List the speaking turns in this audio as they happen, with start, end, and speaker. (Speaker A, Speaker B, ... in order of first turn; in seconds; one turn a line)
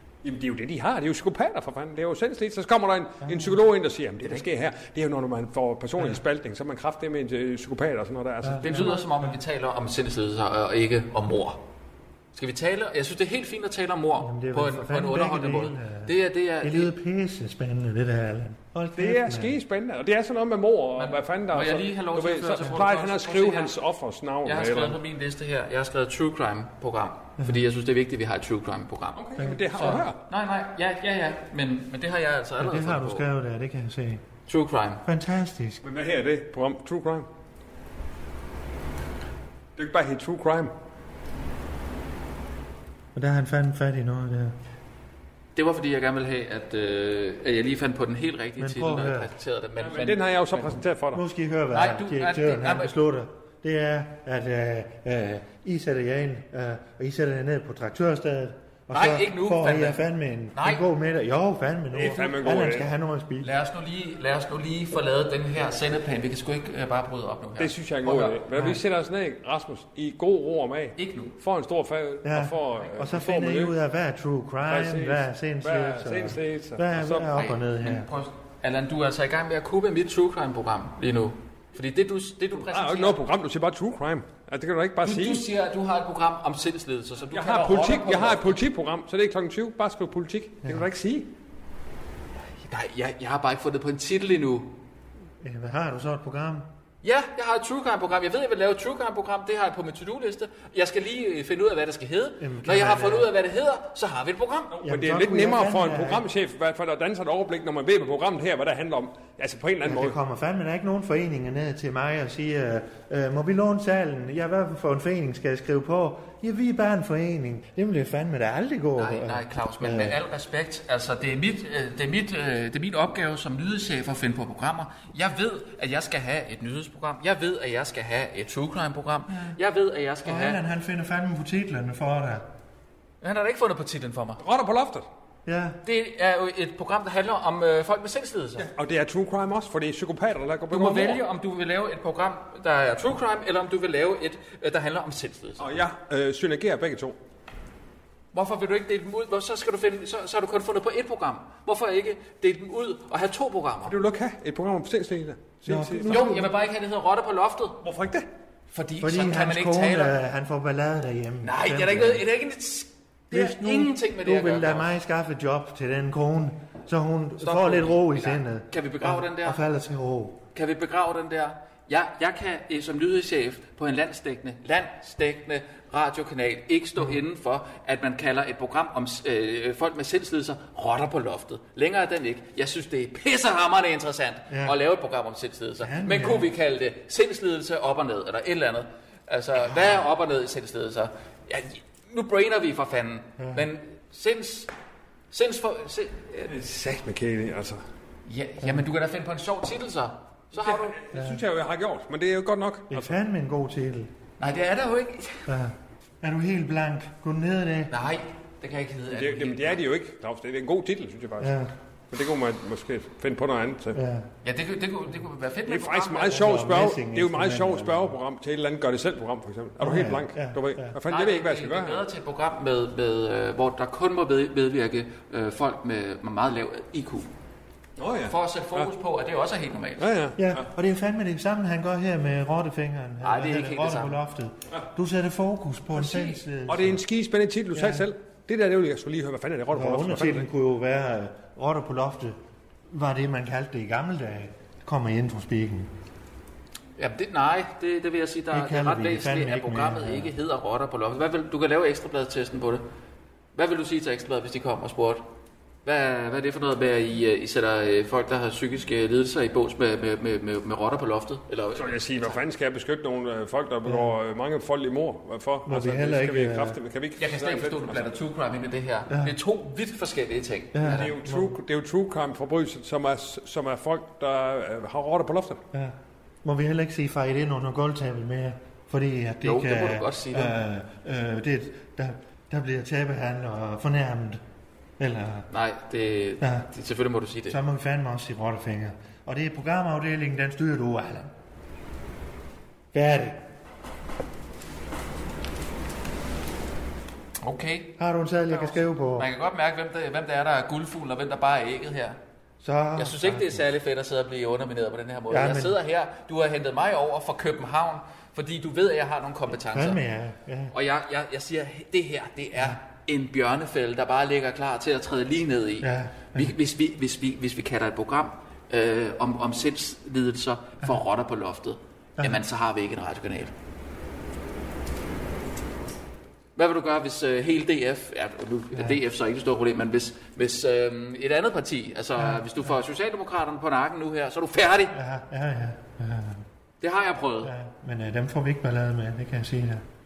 Speaker A: 0.2-8.9
Speaker B: 8.4-9.3
Speaker C: 8.6-11.6
Speaker C: 12.3-16.9
Speaker B: 14.2-19.5
Speaker A: 18.9-25.0
Speaker C: 20.9-23.7
Speaker C: 24.4-33.2
Speaker A: 29.1-30.2
Speaker B: 29.4-29.6
Speaker B: 32.6-34.2
Speaker C: 34.5-35.0
Speaker B: 35.0-35.8
Speaker A: 35.8-37.3
Speaker A: 39.8-40.7
Speaker B: 43.1-44.5
Speaker C: 45.5-50.8
Speaker B: 48.6-49.3
Speaker A: 49.8-51.2
Speaker B: 51.1-63.5
Speaker C: 51.7-52.9
Speaker C: 58.9-60.0
Speaker C: 60.5-60.8
Speaker A: 61.9-62.9
Speaker C: 63.4-68.4
Speaker A: 67.6-73.7
Speaker B: 68.5-68.8
Speaker C: 71.0-71.3
Speaker B: 72.2-78.1
Speaker A: 74.7-77.3
Speaker C: 77.3-83.2
Speaker A: 82.5-85.5
Speaker C: 85.0-88.6
Speaker A: 87.3-91.3
Speaker C: 92.6-94.7
Speaker B: 95.4-96.7
Speaker C: 97.0-104.8
Speaker B: 102.4-103.3
Speaker A: 104.8-110.2
Speaker B: 104.8-106.2
Speaker B: 109.8-120.2
Speaker C: 119.0-130.6
Speaker B: 130.2-132.5
Speaker C: 133.2-134.4
Speaker A: 134.4-135.1
Speaker B: 135.4-135.8
Speaker C: 135.8-138.7
Speaker A: 138.6-141.2
Speaker C: 140.7-145.8
Speaker A: 145.6-147.1
Speaker C: 148.3-153.9
Speaker A: 153.9-156.3
Speaker B: 155.7-156.5
Speaker C: 156.1-157.8
Speaker A: 157.8-158.3
Speaker C: 158.7-160.2
Speaker B: 159.0-162.2
Speaker C: 161.4-164.9
Speaker B: 163.3-170.4
Speaker C: 167.4-169.6
Speaker C: 170.5-194.7
Speaker B: 184.5-184.8
Speaker B: 185.8-186.5
Speaker B: 193.4-193.6
Speaker C: 195.3-196.5
Speaker A: 196.5-197.8
Speaker C: 198.2-201.0
Speaker A: 200.6-203.1
Speaker B: 201.1-201.4
Speaker B: 202.9-204.1
Speaker C: 204.4-205.5
Speaker B: 205.5-207.9
Speaker C: 207.9-209.8
Speaker A: 209.1-211.6
Speaker B: 211.4-211.7
Speaker A: 212.1-214.0
Speaker B: 213.9-214.3
Speaker C: 214.4-216.5
Speaker A: 215.7-222.1
Speaker B: 216.3-218.2
Speaker B: 219.8-220.9
Speaker C: 221.1-227.3
Speaker A: 228.0-228.9
Speaker C: 228.2-230.1
Speaker A: 230.0-230.7
Speaker B: 230.4-237.0
Speaker C: 233.2-234.2
Speaker C: 235.9-236.4
Speaker A: 236.7-240.5
Speaker B: 237.7-238.1
Speaker B: 239.7-242.4
Speaker B: 242.9-245.9
Speaker C: 247.0-252.8
Speaker B: 248.5-250.3
Speaker C: 253.5-255.2
Speaker C: 255.8-262.4
Speaker A: 261.8-268.1
Speaker B: 265.6-266.8
Speaker C: 267.2-271.1
Speaker B: 270.7-271.5
Speaker A: 270.8-275.6
Speaker B: 275.7-284.4
Speaker C: 279.4-280.6
Speaker B: 285.0-285.5
Speaker C: 285.5-287.6
Speaker B: 286.4-286.7
Speaker B: 287.5-291.3
Speaker B: 292.9-293.4
Speaker C: 297.4-298.0
Speaker B: 298.0-299.3
Speaker C: 298.5-302.2
Speaker B: 302.6-303.6
Speaker C: 302.9-310.0
Speaker B: 305.3-305.8
Speaker B: 309.6-310.7
Speaker C: 310.7-323.5
Speaker B: 315.8-316.5
Speaker C: 326.6-334.9
Speaker B: 328.7-329.0
Speaker B: 332.2-332.6
Speaker B: 334.9-336.4
Speaker C: 336.8-337.5
Speaker B: 337.4-339.8